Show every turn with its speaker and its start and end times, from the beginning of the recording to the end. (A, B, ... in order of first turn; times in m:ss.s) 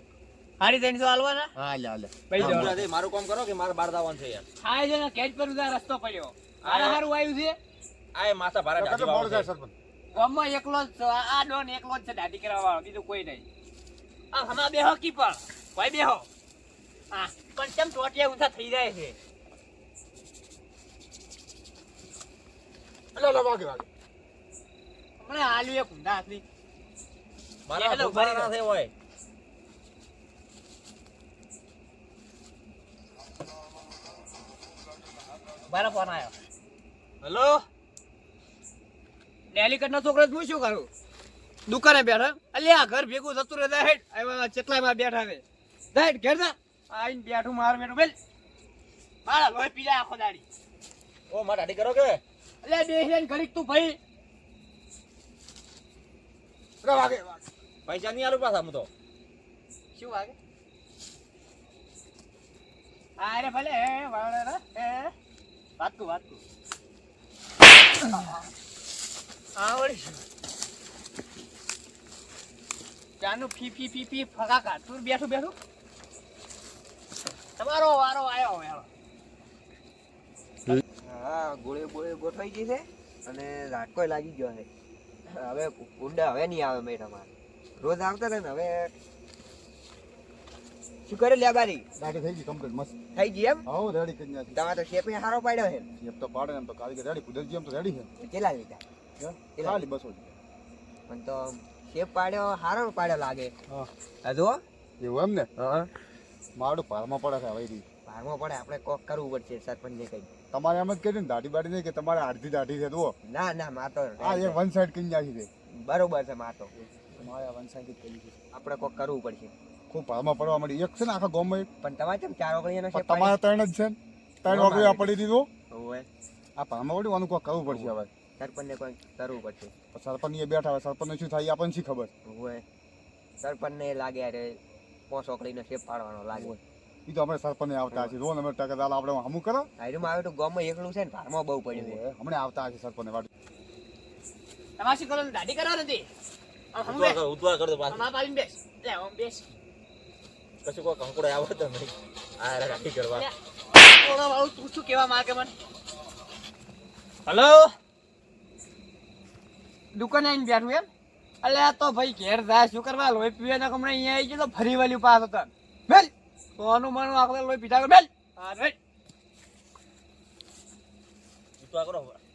0:00.6-0:01.5 A
0:01.6-0:02.9 B
0:02.3-0:02.8 A
0:02.4-0:04.4 C
0:04.6-0:07.6 A
0:06.6-0:07.0 C
0:08.1-0:09.5 C
0:08.8-0:09.7 B
0:10.1-0:13.4 A
0:14.3-0:16.3 A
0:17.1-0:19.2 A
0:23.1-0:23.9 B
0:25.2-0:26.4 A
0:27.7-0:28.9 C
0:27.7-0:28.5 A
0:35.7-0:36.3 A
0:37.2-0:37.6 A
0:39.5-0:40.9 A
0:41.7-0:45.4 A
0:45.9-0:48.1 A
0:49.2-0:50.4 A
0:51.3-0:52.2 C
0:52.6-0:54.0 A
0:57.9-0:58.9 C
1:00.0-1:00.3 A
1:03.2-1:05.1 A
1:05.8-1:06.4 A
1:08.1-1:08.5 A
1:09.6-1:10.2 A
1:13.2-1:15.6 A
1:17.6-1:18.9 A
1:20.7-1:24.7 D
1:25.3-1:28.9 D
1:31.1-1:31.9 D
1:32.0-1:33.0 B
1:33.1-1:33.6 D
1:33.6-1:34.6 B
1:34.5-1:35.9 D
1:36.0-1:38.1 B
1:38.2-1:38.8 D
1:39.2-1:40.4 B
1:41.1-1:43.5 D
1:44.2-1:44.6 D
1:45.0-1:45.5 B
1:45.6-1:45.9 D
1:46.6-1:47.8 B
1:48.0-1:50.3 D
1:50.5-1:53.1 B
1:53.3-1:54.6 D
1:54.2-1:55.5 B
1:55.7-1:56.7 D
1:56.8-1:58.4 B
1:58.5-1:59.5 D
1:59.9-2:01.7 B
2:01.8-2:03.4 D
2:02.9-2:05.5 B
2:04.5-2:05.2 D
2:05.7-2:06.1 D
2:06.6-2:08.1 B
2:07.7-2:09.7 D
2:09.9-2:12.1 B
2:12.2-2:12.6 D
2:13.4-2:14.6 D
2:15.1-2:16.5 D
2:16.3-2:19.7 B
2:19.8-2:22.0 D
2:21.7-2:23.3 B
2:24.8-2:26.0 A
2:26.7-2:27.2 A
2:26.9-2:28.1 C
2:27.9-2:29.5 A
2:30.6-2:33.3 C
2:33.1-2:35.5 A
2:37.2-2:37.7 A
2:39.9-2:40.9 A
2:41.4-2:48.8 A
2:51.6-2:52.2 C